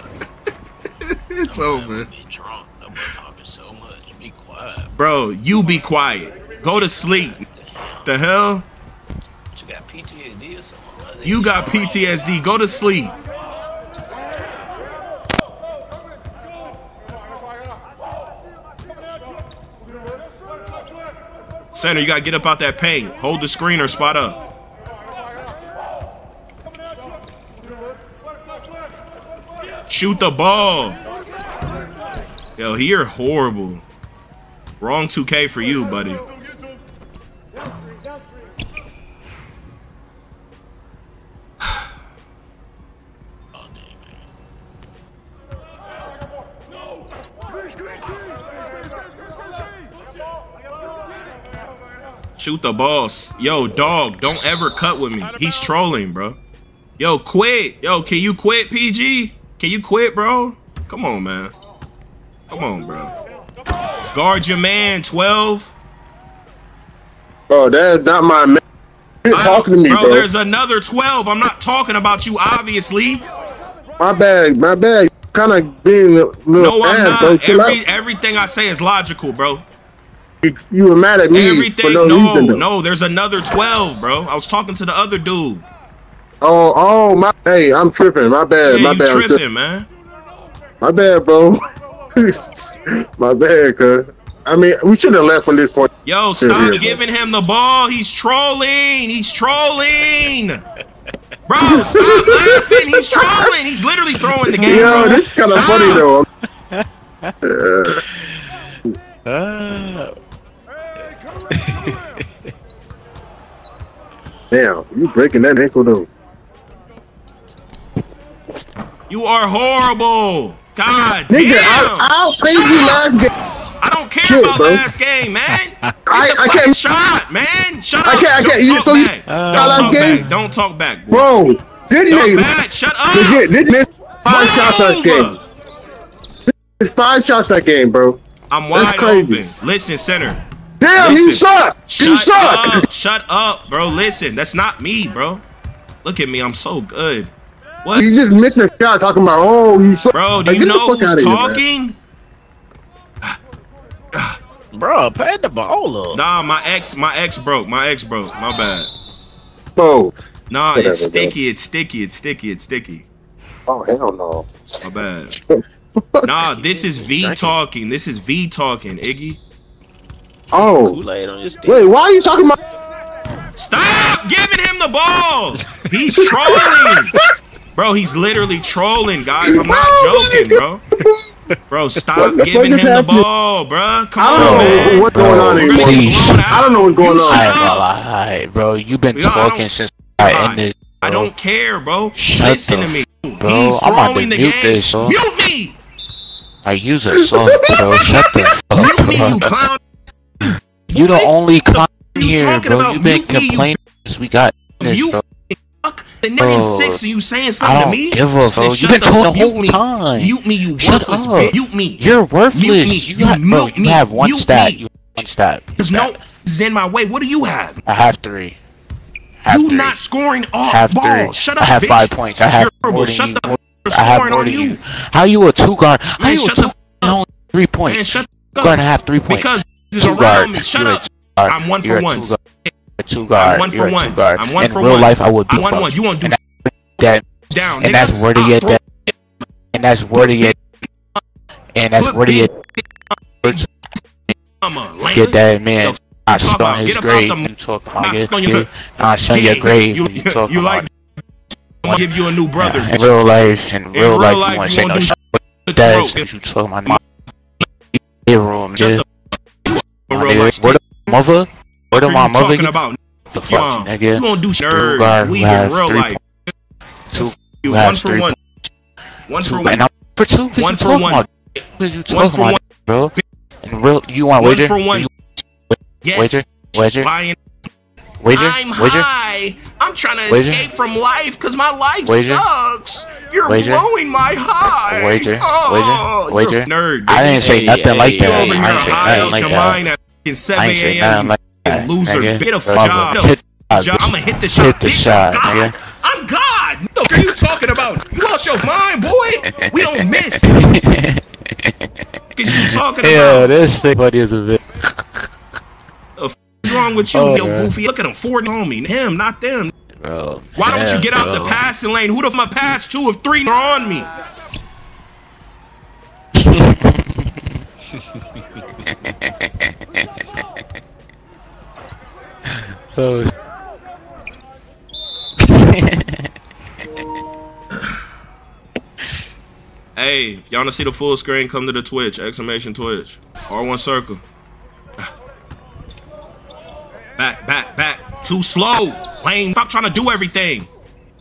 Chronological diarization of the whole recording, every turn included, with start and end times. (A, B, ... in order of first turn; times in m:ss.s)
0:01.0-0:02.1 A
0:01.5-0:04.9 B
0:05.0-0:07.4 A
0:06.9-0:08.1 B
0:08.0-0:08.6 A
0:09.6-0:12.0 B
0:11.2-0:13.1 A
0:21.7-0:24.4 A
0:29.9-0:31.0 A
0:32.6-0:33.8 A
0:34.8-0:36.2 A
0:43.5-0:44.2 B
0:52.4-0:56.4 A
0:57.0-1:01.5 A
1:02.5-1:03.1 A
1:04.1-1:05.7 A
1:07.5-1:08.6 C
1:09.2-1:10.3 C
1:09.3-1:13.2 A
1:14.0-1:17.8 C
1:16.6-1:19.6 A
1:20.4-1:22.6 C
1:21.3-1:25.6 A
1:26.4-1:29.4 C
1:28.6-1:29.9 A
1:30.8-1:31.6 C
1:32.2-1:35.9 C
1:36.0-1:40.6 A
1:36.4-1:37.0 C
1:41.5-1:46.1 A
1:41.6-1:43.5 C
1:44.3-1:46.0 B
1:44.6-1:46.3 C
1:46.7-1:47.3 B
1:47.4-1:48.0 C
1:47.9-1:50.2 B
1:51.5-1:52.5 B
1:54.5-1:56.1 C
1:59.1-2:03.0 A
2:01.3-2:03.3 C
2:03.8-2:11.3 A
2:04.2-2:04.8 C
2:06.1-2:06.8 C
2:08.0-2:10.2 C
2:09.3-2:10.5 B
2:11.1-2:12.5 C
2:12.1-2:13.5 A
2:13.1-2:15.4 C
2:14.2-2:15.4 A
2:16.5-2:18.2 C
2:18.5-2:20.4 A
2:18.7-2:19.4 C
2:20.8-2:22.8 C
2:20.9-2:25.4 A
2:26.0-2:28.1 A
2:28.0-2:31.6 C
2:30.1-2:32.0 A
2:34.1-2:34.4 A
2:34.7-2:36.2 B
2:36.1-2:38.9 A
2:39.8-2:40.1 C
2:40.5-2:43.1 A
2:40.8-2:41.3 C
2:43.7-2:44.9 C
2:44.8-2:45.4 A
2:45.5-2:46.3 C
2:46.2-2:49.4 A
2:46.4-2:47.6 B
2:50.5-2:51.0 C
2:50.6-2:51.9 B
2:51.7-2:52.6 C
2:53.6-2:57.1 A
2:56.1-2:57.2 C
2:57.8-3:00.8 A
2:59.5-3:00.6 C
3:01.7-3:07.9 A
3:02.2-3:03.2 C
3:04.2-3:07.5 C
3:04.4-3:06.6 D
3:07.2-3:11.3 D
3:09.1-3:15.8 A
3:12.2-3:15.2 D
3:16.6-3:19.6 D
3:17.3-3:18.5 C
3:18.7-3:19.9 A
3:20.4-3:25.2 D
3:20.9-3:23.7 A
3:24.8-3:34.8 A
3:26.4-3:27.0 D
3:27.6-3:36.2 D
3:35.8-3:37.8 A
3:37.9-3:38.6 D
3:39.4-3:40.0 D
3:39.5-3:44.8 A
3:40.7-3:52.4 D
3:46.2-3:47.2 A
3:47.9-3:52.7 A
3:53.0-3:57.3 D
3:53.4-3:56.4 A
3:57.5-3:58.8 A
3:57.8-3:58.8 D
3:59.7-4:00.6 D
4:00.2-4:00.6 A
4:01.8-4:02.5 D
4:02.0-4:03.7 A
4:04.6-4:08.7 A
4:05.0-4:10.9 D
4:09.3-4:10.9 A
4:11.8-4:13.1 A
4:11.8-4:17.0 D
4:13.9-4:16.3 A
4:17.9-4:19.0 D
4:19.7-4:22.7 D
4:20.1-4:20.8 A
4:21.9-4:26.2 A
4:23.3-4:26.2 D
4:27.1-4:28.5 D
4:27.2-4:28.4 A
4:29.3-4:29.9 A
4:29.4-4:35.1 D
4:30.6-4:31.2 A
4:32.1-4:32.6 A
4:34.4-4:35.1 A
4:35.7-4:37.1 D
4:36.0-4:37.4 A
4:38.2-4:39.1 D
4:38.3-4:47.6 A
4:40.3-4:40.7 D
4:42.0-4:42.4 D
4:43.5-4:43.9 D
4:44.9-4:49.8 D
4:47.3-4:49.8 B
4:48.2-5:00.5 A
4:50.6-4:55.7 D
4:59.5-5:05.2 D
5:02.4-5:03.5 A
5:06.2-5:09.7 A
5:07.1-5:07.7 D
5:10.0-5:11.6 D
5:10.6-5:14.1 A
5:16.4-5:17.6 D
5:18.0-5:18.7 B
5:18.8-5:20.4 D
5:22.5-5:23.3 D
5:25.4-5:26.3 D
5:30.0-5:34.2 A
5:37.2-5:40.7 A